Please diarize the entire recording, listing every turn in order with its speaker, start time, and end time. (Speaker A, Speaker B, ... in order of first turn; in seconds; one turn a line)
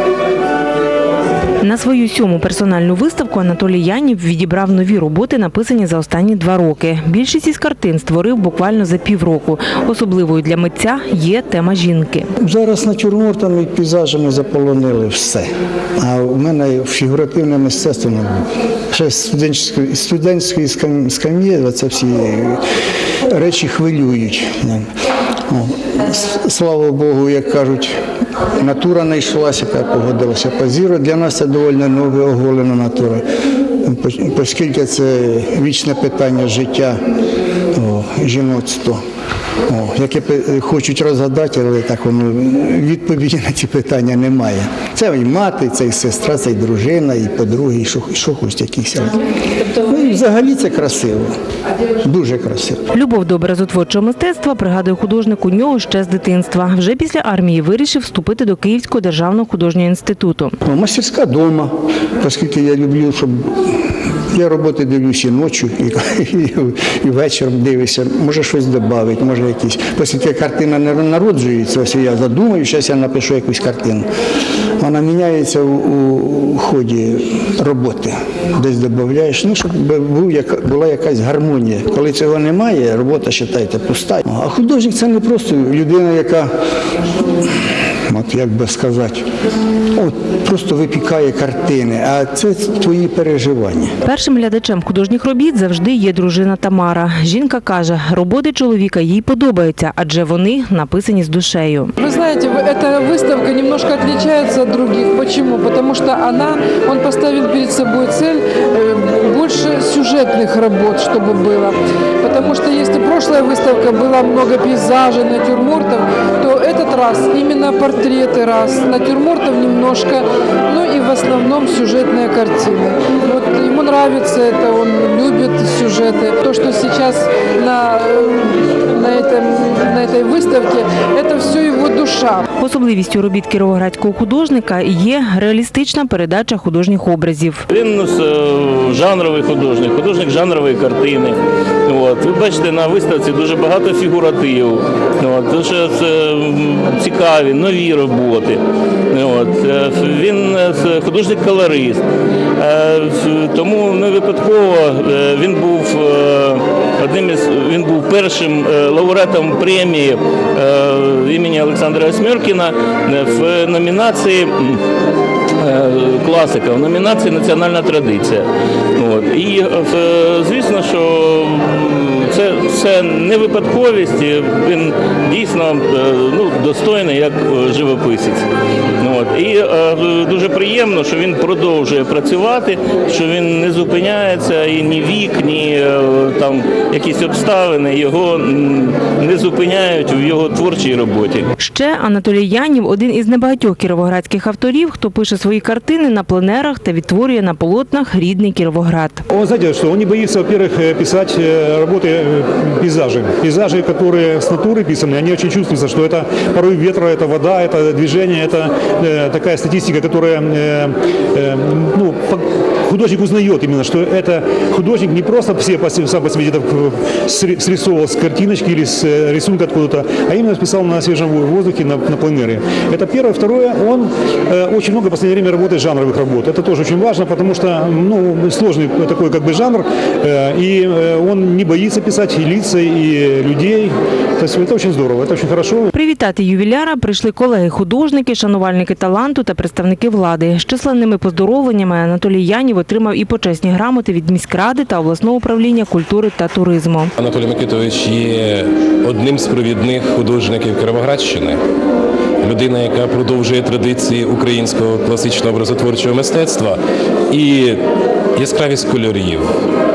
Speaker A: 1.6-12.3
Speaker B: 12.4-22.6
Speaker B: 23.3-24.9
Speaker B: 25.5-27.9
Speaker B: 28.6-33.2
Speaker B: 33.8-37.0
Speaker B: 37.7-39.0
Speaker B: 39.7-49.2
Speaker B: 49.7-51.3
Speaker B: 52.0-52.8
Speaker A: 52.9-60.5
Speaker B: 60.6-63.5
Speaker B: 64.3-74.1
Speaker B: 74.8-86.5
Speaker B: 88.1-89.2
Speaker B: 89.9-93.9
Speaker A: 94.0-101.9
Speaker C: 102.0-132.4
Speaker A: 132.6-137.6
Speaker D: 137.7-152.0
Speaker D: 152.6-164.8
Speaker D: 165.6-178.5
Speaker D: 179.0-191.5
Speaker A: 191.6-199.2
Speaker E: 199.3-235.9
Speaker A: 235.9-247.1
Speaker F: 247.2-251.6
Speaker F: 252.4-257.8
Speaker F: 258.4-259.5